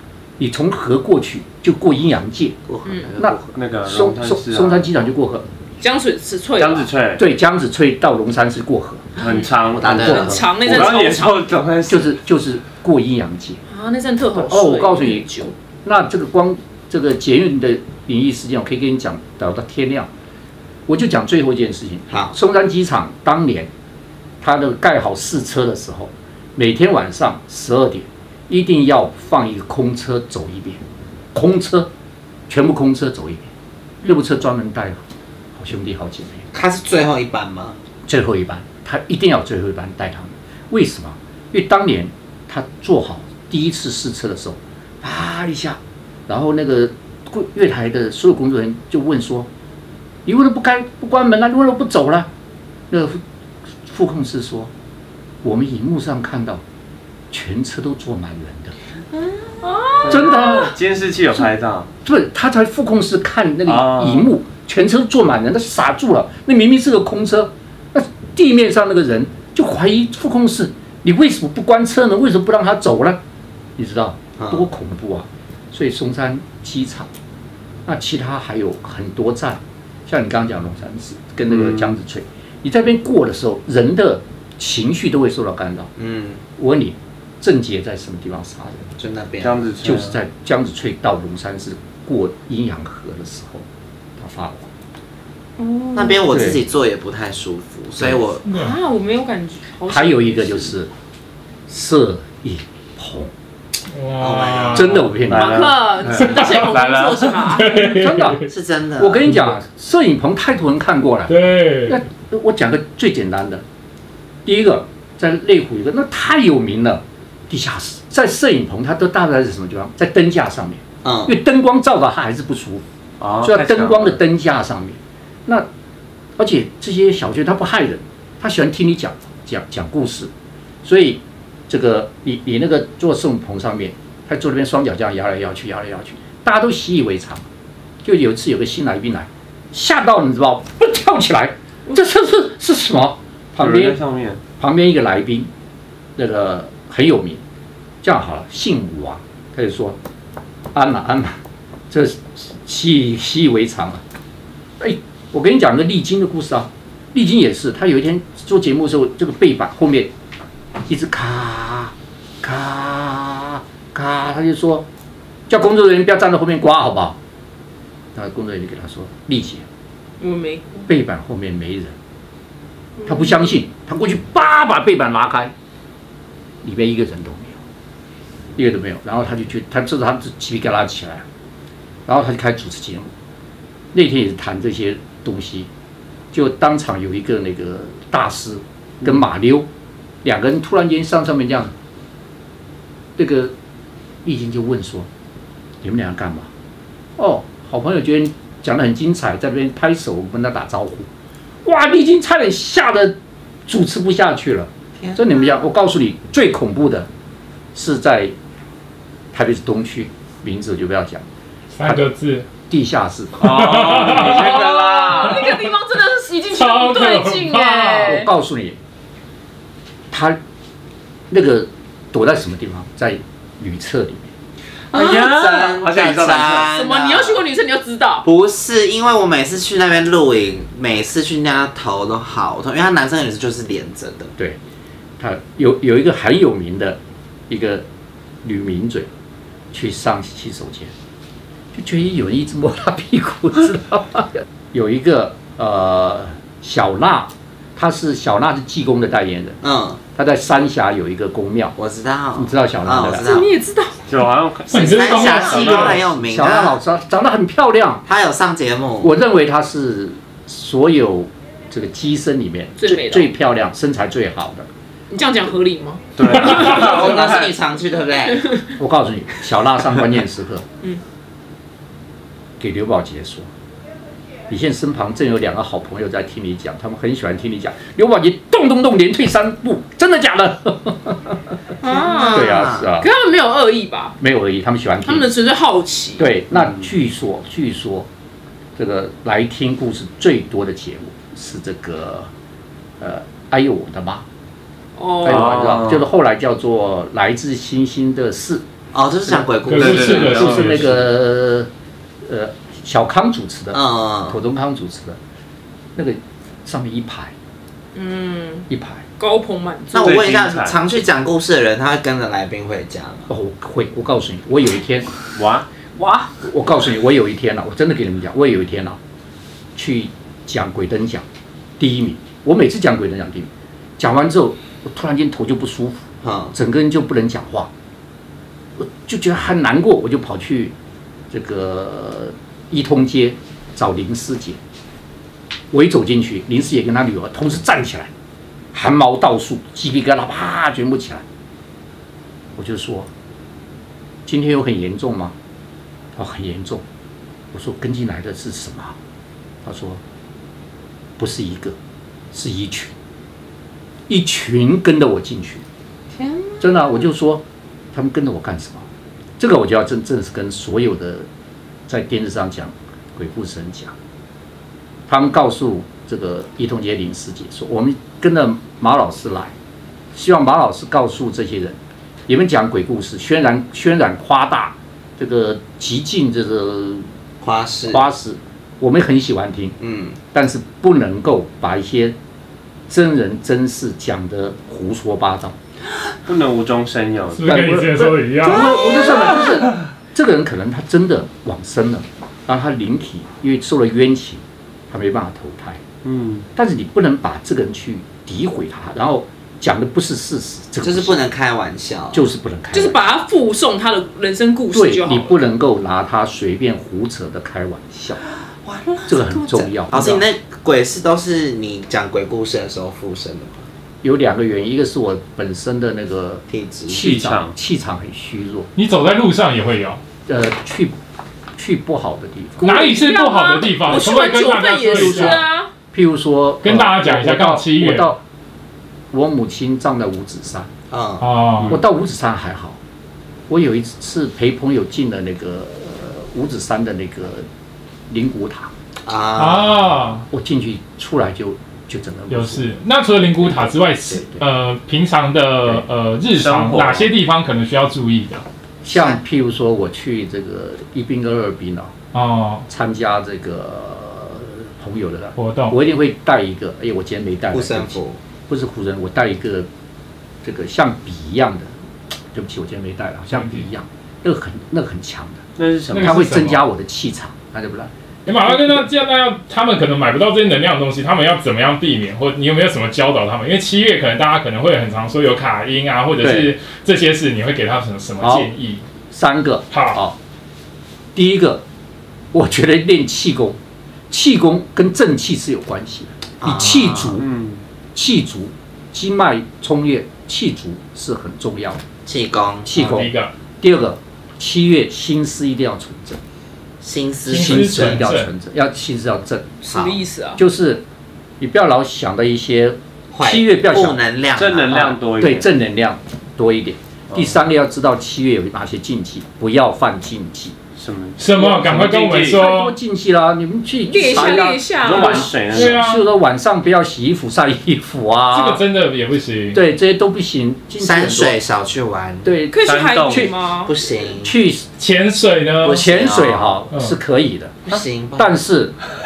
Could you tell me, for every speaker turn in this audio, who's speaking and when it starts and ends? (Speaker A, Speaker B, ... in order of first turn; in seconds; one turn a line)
Speaker A: 0.4-2.6
Speaker B: 2.7-3.5
Speaker C: 2.9-3.1
Speaker A: 3.2-5.5
Speaker D: 3.5-4.9
Speaker C: 5.8-6.9
Speaker D: 6.6-7.2
Speaker A: 7.2-9.1
Speaker D: 9.2-10.0
Speaker C: 9.2-9.5
Speaker A: 9.7-11.1
Speaker B: 9.8-10.4
Speaker C: 10.0-11.4
Speaker D: 10.6-12.2
Speaker A: 11.9-13.6
Speaker C: 13.7-15.5
Speaker A: 14.3-15.3
Speaker A: 15.8-20.1
Speaker A: 20.9-23.7
Speaker B: 22.1-22.4
Speaker A: 24.4-30.8
Speaker A: 31.3-31.9
Speaker A: 32.5-33.5
Speaker C: 34.0-34.3
Speaker A: 34.0-35.0
Speaker A: 35.5-36.5
Speaker B: 36.5-37.8
Speaker A: 38.1-49.5
Speaker A: 50.3-52.3
Speaker A: 52.9-53.2
Speaker A: 53.9-54.7
Speaker A: 55.4-56.6
Speaker A: 57.3-58.8
Speaker C: 59.6-60.6
Speaker D: 60.0-61.9
Speaker A: 60.1-60.7
Speaker A: 62.0-73.2
Speaker D: 63.7-64.3
Speaker A: 73.8-77.1
Speaker B: 74.4-74.7
Speaker A: 77.9-85.9
Speaker B: 81.5-82.0
Speaker B: 86.0-86.4
Speaker A: 86.6-88.9
Speaker B: 89.0-89.6
Speaker D: 89.4-90.2
Speaker A: 89.8-93.7
Speaker A: 94.2-94.7
Speaker C: 95.6-96.2
Speaker B: 96.0-98.5
Speaker A: 96.3-96.6
Speaker E: 98.5-98.7
Speaker C: 98.5-100.7
Speaker A: 99.9-100.9
Speaker A: 101.7-103.3
Speaker E: 103.9-105.0
Speaker B: 104.2-105.1
Speaker A: 104.7-105.7
Speaker D: 105.3-107.5
Speaker C: 105.4-107.7
Speaker E: 106.1-106.7
Speaker E: 107.5-108.5
Speaker A: 107.7-108.4
Speaker B: 108.5-109.3
Speaker A: 109.0-113.6
Speaker E: 111.3-112.0
Speaker A: 114.5-122.8
Speaker B: 121.0-121.3
Speaker D: 123.2-124.2
Speaker A: 123.4-125.7
Speaker A: 126.4-130.3
Speaker A: 130.8-137.4
Speaker A: 138.0-144.0
Speaker D: 143.6-144.4
Speaker A: 144.6-145.5
Speaker A: 146.2-147.4
Speaker A: 148.0-150.0
Speaker A: 150.7-151.4
Speaker A: 151.9-154.0
Speaker A: 154.8-160.1
Speaker A: 160.9-164.9
Speaker A: 165.5-167.2
Speaker A: 168.2-169.6
Speaker C: 170.2-170.9
Speaker A: 170.9-171.9
Speaker C: 173.0-173.4
Speaker A: 173.1-175.5
Speaker A: 176.6-177.6
Speaker A: 178.6-181.2
Speaker A: 182.1-183.1
Speaker A: 183.9-185.7
Speaker A: 186.3-189.7
Speaker A: 190.2-191.7
Speaker A: 193.2-193.5
Speaker A: 194.2-195.1
Speaker A: 195.8-196.5
Speaker A: 197.2-201.1
Speaker A: 201.7-203.2
Speaker A: 203.7-207.1
Speaker A: 207.7-208.3
Speaker A: 209.3-211.2
Speaker E: 211.8-212.5
Speaker A: 212.7-214.3
Speaker D: 213.4-215.3
Speaker E: 213.4-214.8
Speaker C: 214.7-218.3
Speaker E: 215.4-215.6
Speaker E: 216.5-218.2
Speaker A: 218.0-218.8
Speaker A: 220.1-220.4
Speaker A: 221.3-224.3
Speaker B: 224.9-227.4
Speaker D: 224.9-226.7
Speaker C: 226.7-228.2
Speaker B: 228.2-234.3
Speaker A: 235.2-237.0
Speaker A: 237.5-237.8
Speaker A: 238.4-239.1
Speaker A: 239.7-240.9
Speaker A: 241.7-249.6
Speaker B: 249.6-250.0
Speaker A: 250.1-251.8
Speaker B: 251.8-253.6
Speaker A: 252.3-253.3
Speaker C: 253.2-254.0
Speaker D: 254.1-256.0
Speaker E: 254.7-256.0
Speaker B: 254.7-256.8
Speaker A: 256.2-258.1
Speaker B: 258.1-259.1
Speaker A: 259.0-264.7
Speaker C: 262.8-263.3
Speaker C: 265.1-267.1
Speaker D: 266.2-267.5
Speaker B: 266.4-268.5
Speaker A: 268.7-270.6
Speaker A: 272.6-273.5
Speaker A: 274.5-281.4
Speaker C: 281.8-284.2
Speaker B: 281.8-282.9
Speaker A: 282.3-283.1
Speaker A: 284.2-285.3
Speaker C: 285.1-286.3
Speaker A: 286.2-288.1
Speaker A: 288.8-292.3
Speaker A: 293.0-294.2
Speaker C: 295.0-295.5
Speaker A: 295.2-298.6
Speaker D: 295.3-296.1
Speaker B: 298.9-300.4
Speaker A: 299.3-301.7
Speaker E: 299.7-301.0
Speaker D: 299.8-300.8
Speaker A: 302.2-305.2
Speaker B: 303.7-304.4
Speaker A: 306.0-307.3
Speaker C: 307.9-308.7
Speaker A: 308.7-309.0
Speaker C: 309.2-310.2
Speaker B: 309.9-313.3
Speaker D: 310.0-310.8
Speaker A: 313.3-315.1
Speaker D: 315.4-315.7
Speaker C: 316.0-316.3
Speaker A: 316.4-319.0
Speaker A: 319.8-321.2
Speaker A: 321.8-327.7
Speaker B: 326.2-326.6
Speaker A: 328.8-330.7
Speaker A: 331.3-334.6
Speaker A: 335.7-338.1
Speaker A: 338.7-341.2
Speaker A: 342.6-343.1
Speaker A: 344.3-345.3
Speaker A: 346.1-346.8
Speaker A: 347.5-348.9
Speaker A: 349.6-350.0
Speaker A: 351.2-351.8
Speaker A: 352.3-352.9
Speaker A: 354.1-355.6
Speaker B: 356.1-356.7
Speaker A: 356.6-357.4
Speaker A: 357.9-358.9
Speaker A: 359.4-361.3
Speaker A: 361.9-363.9
Speaker A: 365.1-369.5
Speaker A: 370.1-371.8
Speaker A: 372.3-377.1
Speaker B: 377.4-378.0
Speaker A: 377.9-379.8
Speaker B: 379.8-380.2
Speaker A: 380.3-382.2
Speaker A: 382.9-385.6
Speaker D: 386.2-387.5
Speaker E: 387.3-388.7
Speaker A: 387.4-395.8
Speaker D: 396.0-396.5
Speaker A: 396.6-401.2
Speaker B: 400.8-402.3
Speaker A: 402.1-403.0
Speaker C: 402.7-405.4
Speaker A: 404.7-408.2
Speaker B: 408.6-413.7
Speaker A: 409.1-410.3
Speaker A: 414.0-418.7
Speaker B: 416.5-417.0
Speaker D: 417.0-417.5
Speaker E: 418.8-420.0
Speaker A: 420.3-420.9
Speaker A: 421.6-422.8
Speaker E: 422.6-425.4
Speaker C: 422.6-425.7
Speaker A: 425.0-425.4
Speaker A: 425.9-428.2
Speaker E: 426.6-428.1
Speaker A: 429.1-430.7
Speaker B: 430.9-431.3
Speaker E: 431.2-431.8
Speaker A: 431.6-432.8
Speaker A: 433.5-437.5
Speaker A: 438.1-438.7
Speaker B: 439.1-439.9
Speaker E: 439.4-440.2
Speaker A: 440.3-442.7
Speaker E: 442.3-448.4
Speaker D: 446.3-447.1
Speaker A: 448.8-451.9
Speaker B: 448.9-449.2
Speaker E: 452.1-452.6
Speaker A: 452.7-459.7
Speaker E: 455.4-455.8
Speaker B: 457.5-458.2
Speaker A: 460.4-461.7
Speaker A: 462.3-465.4
Speaker E: 463.3-463.6
Speaker D: 465.6-466.4
Speaker E: 465.9-466.6
Speaker A: 466.0-468.9
Speaker E: 468.3-478.8
Speaker A: 476.2-476.5
Speaker A: 478.2-478.5
Speaker A: 479.1-480.2
Speaker E: 479.7-480.0
Speaker A: 481.1-481.6
Speaker A: 482.3-483.6
Speaker A: 484.1-487.3
Speaker B: 486.4-487.2
Speaker D: 487.2-487.6
Speaker A: 487.9-491.8
Speaker B: 492.1-492.7
Speaker A: 492.7-496.2
Speaker E: 492.8-493.3
Speaker B: 496.8-498.1
Speaker E: 497.2-498.3
Speaker A: 497.3-499.5
Speaker C: 499.6-500.4
Speaker B: 499.7-500.0
Speaker A: 500.4-500.8
Speaker A: 501.4-504.0
Speaker B: 503.1-504.9
Speaker D: 504.4-505.5
Speaker A: 504.7-510.6
Speaker D: 507.1-507.4
Speaker D: 510.8-512.4
Speaker E: 511.2-512.8
Speaker A: 511.4-518.6
Speaker C: 513.8-515.4
Speaker D: 514.1-515.8
Speaker E: 515.5-516.1
Speaker E: 518.3-519.6
Speaker A: 519.5-521.4
Speaker B: 520.8-522.4
Speaker A: 522.2-523.3
Speaker C: 522.5-523.7
Speaker D: 522.6-523.3
Speaker B: 523.6-524.3
Speaker A: 524.2-524.6
Speaker E: 524.8-525.9
Speaker B: 525.6-526.6
Speaker A: 525.7-528.8
Speaker B: 527.7-528.4